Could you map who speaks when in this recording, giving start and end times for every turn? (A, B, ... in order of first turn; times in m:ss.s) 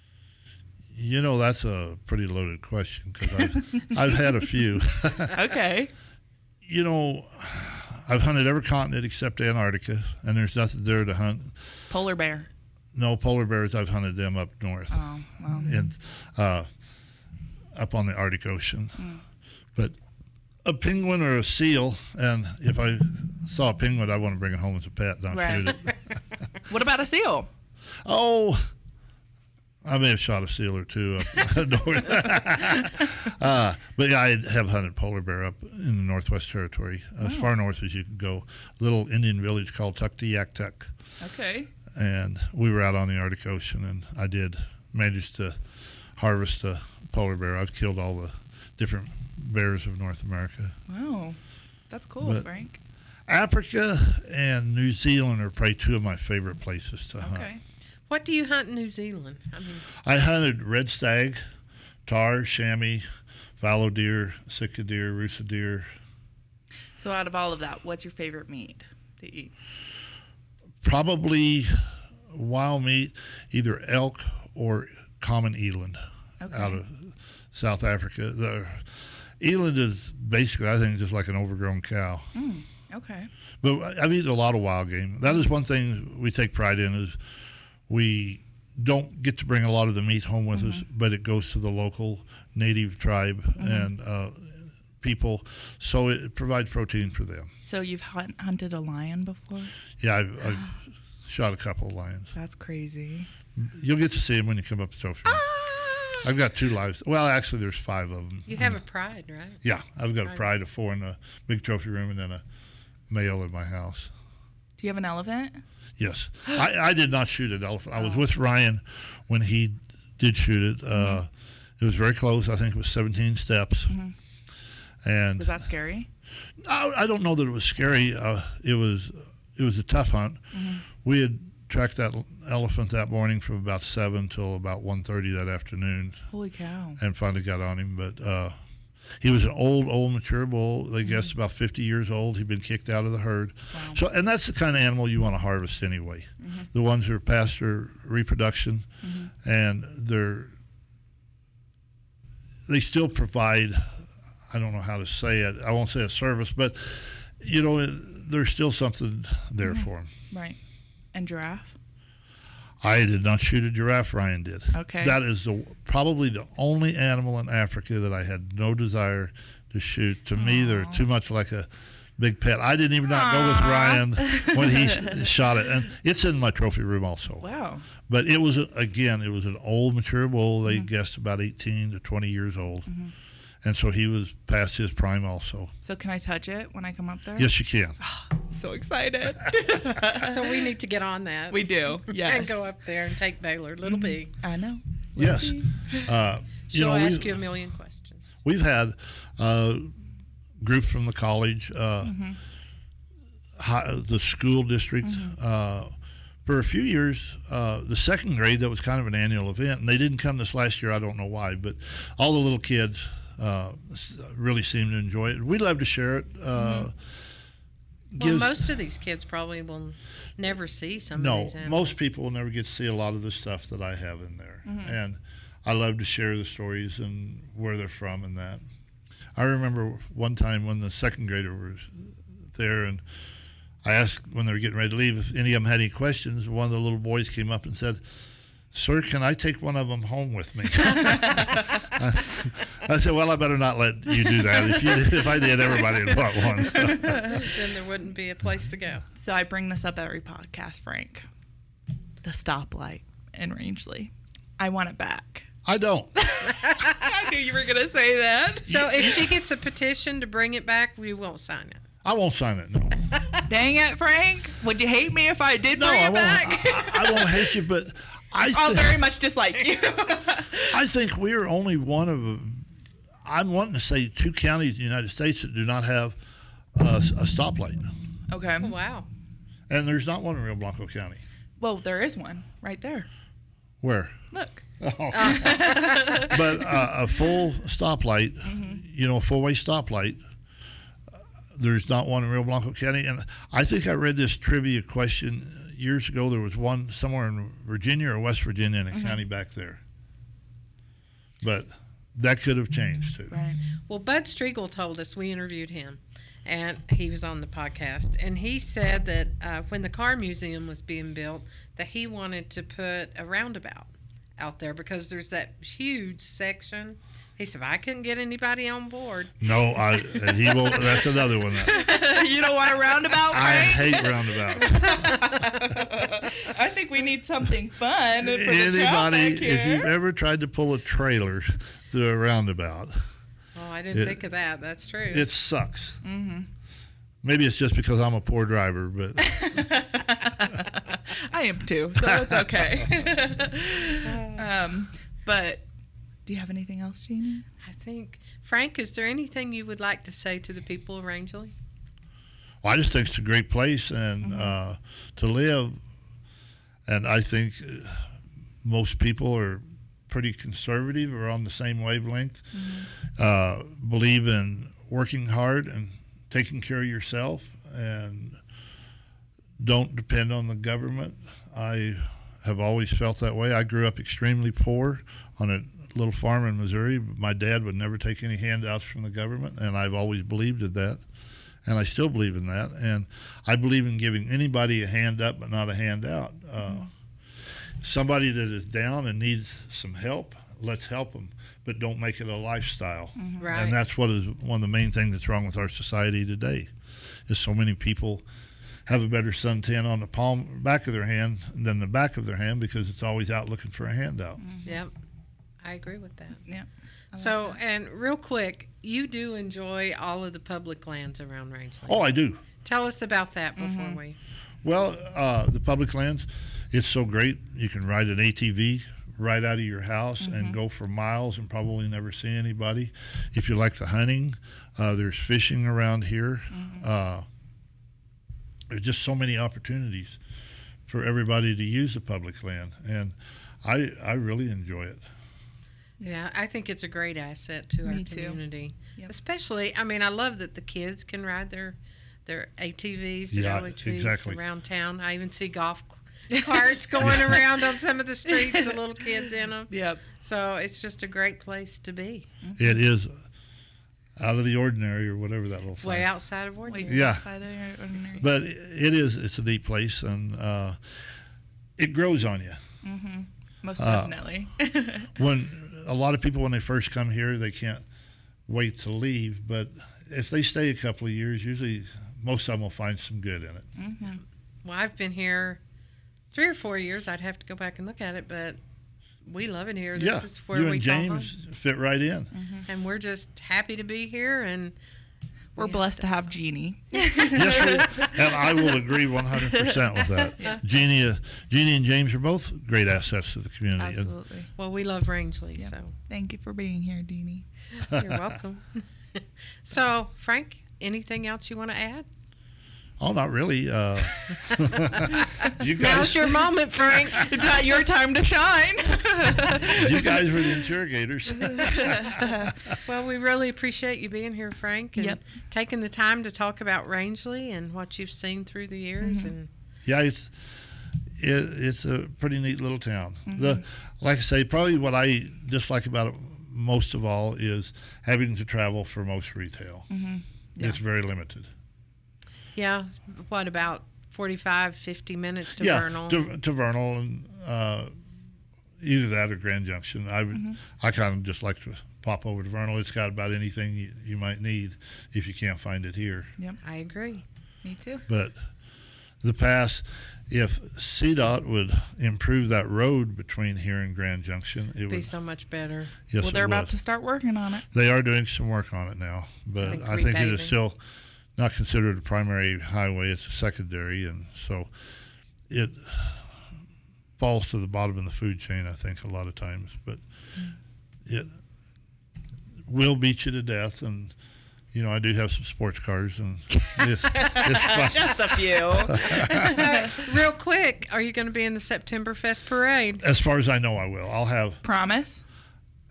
0:00.9-0:05.4 A
0:05.3-0:05.9 B
0:06.6-0:11.6 A
0:11.9-0:12.5 B
0:12.9-0:15.0 A
0:14.9-0:15.8 B
0:15.5-0:16.7 A
0:17.7-0:19.0 A
0:20.6-0:25.9 A
0:25.3-0:25.8 B
0:26.7-0:27.5 B
0:28.0-0:28.7 A
0:29.8-0:40.9 A
0:37.2-0:37.5 B
0:41.2-0:41.7 B
0:41.9-0:45.6 A
0:46.2-0:50.8 A
0:50.9-0:51.4 B
0:51.9-0:52.8 B
0:52.2-0:52.5 A
0:53.3-0:57.5 A
0:57.2-0:57.6 B
0:58.1-0:59.9 C
1:00.0-1:01.4 A
1:02.1-1:03.0 A
1:03.6-1:05.9 A
1:07.0-1:09.5 B
1:10.8-1:11.8 A
1:12.3-1:18.9 A
1:16.4-1:16.8 B
1:19.4-1:22.3 A
1:22.4-1:23.3 B
1:23.6-1:27.2 A
1:27.9-1:37.5 A
1:30.5-1:30.8 B
1:33.6-1:33.9 B
1:37.6-1:39.7 B
1:40.0-1:40.7 A
1:40.4-1:40.7 B
1:41.3-1:42.3 A
1:42.4-1:43.3 B
1:43.6-1:45.5 A
1:45.3-1:46.3 B
1:46.2-1:48.8 A
1:48.5-1:49.6 C
1:49.6-1:52.4 A
1:53.1-1:54.1 A
1:54.8-1:55.6 B
1:56.0-2:03.9 A
2:01.0-2:01.2 B
2:03.9-2:04.1 B
2:05.0-2:05.6 A
2:05.4-2:06.1 B
2:06.6-2:10.4 A
2:10.5-2:10.8 B
2:11.0-2:16.2 A
2:16.3-2:17.0 B
2:17.0-2:18.6 A
2:19.2-2:28.9 A
2:23.7-2:24.0 B
2:29.0-2:29.3 B
2:29.4-2:30.5 A
2:32.7-2:34.0 A
2:34.5-2:40.1 A
2:39.6-2:40.6 B
2:41.1-2:41.8 B
2:42.8-2:57.5 A
2:44.7-2:45.2 B
2:50.4-2:51.0 B
2:53.1-2:55.3 B
2:57.4-2:57.8 B
2:58.1-3:02.9 A
3:03.6-3:05.7 A
3:05.8-3:10.5 B
3:07.4-3:08.0 A
3:10.0-3:14.3 C
3:11.5-3:12.7 B
3:13.8-3:16.1 B
3:15.2-3:17.4 A
3:16.7-3:18.2 C
3:18.4-3:19.9 A
3:20.6-3:22.2 A
3:22.0-3:22.4 B
3:23.6-3:25.9 A
3:25.0-3:25.3 B
3:26.4-3:37.0 A
3:36.6-3:36.9 B
3:38.2-3:38.6 A
3:38.2-3:42.0 C
3:41.1-3:48.6 A
3:44.7-3:45.0 B
3:49.4-3:53.0 A
3:53.8-3:58.0 A
3:58.7-4:07.3 A
4:06.8-4:07.5 B
4:07.1-4:09.0 C
4:09.2-4:11.2 B
4:12.2-4:15.5 B
4:15.6-4:16.2 A
4:16.2-4:18.7 B
4:16.5-4:17.1 C
4:18.7-4:19.2 A
4:18.7-4:21.8 C
4:22.0-4:23.1 A
4:23.5-4:27.6 B
4:25.7-4:29.0 A
4:28.4-4:30.8 B
4:30.7-4:32.6 A
4:33.2-4:36.2 A
4:36.8-4:37.9 A
4:38.3-4:38.7 B
4:38.6-4:39.1 C
4:39.7-4:41.2 A
4:41.6-4:43.1 B
4:43.8-4:44.2 A
4:44.3-4:44.6 B
4:44.8-4:50.2 A
4:45.1-4:46.3 C
4:45.2-4:46.7 B
4:48.4-4:48.8 B
4:51.5-4:59.8 A
4:58.9-4:59.2 B
5:01.4-5:03.3 A
5:03.3-5:03.6 B
5:03.9-5:19.4 C
5:19.4-5:22.0 A
5:21.4-5:29.9 B
5:23.3-5:25.4 A
5:28.2-5:33.0 A
5:33.6-5:35.2 C
5:33.9-5:34.2 A
5:35.1-5:36.0 A
5:36.0-5:36.5 B
5:37.2-5:39.7 A
5:39.3-5:45.6 B
5:42.0-5:42.9 A
5:44.0-5:44.4 C
5:46.3-5:47.5 B
5:47.6-5:51.5 C
5:52.6-5:55.8 A
5:54.2-5:54.5 B
5:56.9-5:58.1 A
5:58.6-6:02.4 A
6:02.5-6:02.9 B
6:03.2-6:08.4 A
6:09.6-6:21.0 A
6:21.6-6:26.9 A
6:27.8-6:36.7 A
6:33.2-6:33.5 B
6:33.4-6:33.8 C
6:37.3-6:38.2 A
6:38.9-6:44.4 A
6:44.4-6:44.7 B
6:44.6-6:44.9 C
6:45.6-6:46.4 C
6:46.5-6:47.6 B
6:47.1-6:52.1 C
6:51.9-6:52.4 A
6:52.6-6:54.2 C
6:53.6-6:54.0 B
6:54.6-7:07.3 A
7:00.2-7:00.6 B
7:06.5-7:06.8 B
7:08.7-7:10.2 A
7:10.9-7:15.0 A
7:16.0-7:32.3 C
7:17.8-7:19.1 B
7:23.3-7:24.4 A
7:26.3-7:27.1 B
7:27.0-7:27.4 A
7:28.3-7:28.8 B
7:29.7-7:30.0 B
7:32.4-7:32.7 B
7:32.6-7:33.2 A
7:34.2-7:36.1 A
7:35.8-7:37.0 C
7:36.7-7:38.3 B
7:36.8-7:37.3 A
7:38.2-7:40.8 A
7:41.8-7:42.6 A
7:42.8-7:45.1 B
7:43.8-7:44.2 A
7:45.2-7:47.8 A
7:48.5-7:53.7 A
7:53.8-7:54.2 B
7:54.6-7:55.6 C
7:56.3-7:58.6 C
7:59.2-8:01.3 C
8:00.0-8:02.3 A
8:02.3-8:02.7 B
8:02.7-8:04.8 C
8:05.6-8:08.2 B
8:05.6-8:06.1 C
8:07.3-8:14.1 A
8:13.8-8:14.5 B
8:14.6-8:15.9 C
8:15.6-8:17.4 B
8:17.8-8:22.1 C
8:17.9-8:18.2 A
8:23.0-8:26.4 A
8:25.6-8:27.4 C
8:27.1-8:30.7 B
8:29.7-8:32.8 A
8:31.4-8:32.5 B
8:32.8-8:39.5 C
8:39.0-8:39.3 B
8:39.8-8:40.3 A
8:41.2-8:49.9 A
8:43.3-8:43.6 B
8:49.9-8:50.8 B
8:50.6-8:51.5 A
8:52.6-8:56.2 C
8:55.6-8:57.9 A
8:58.8-9:06.3 A
9:00.3-9:00.6 B
9:06.6-9:07.2 C
9:07.6-9:08.0 B
9:08.1-9:08.4 A
9:09.2-9:15.1 A
9:14.9-9:15.9 C
9:16.1-9:16.7 A
9:16.2-9:17.7 B
9:17.7-9:20.8 A
9:19.6-9:20.6 C
9:21.4-9:24.7 A
9:25.5-9:26.3 A
9:27.2-9:30.0 A
9:32.7-9:34.1 A
9:34.7-9:39.6 A
9:36.8-9:40.0 B
9:39.2-9:43.0 C
9:43.0-9:44.6 A
9:44.6-9:45.2 B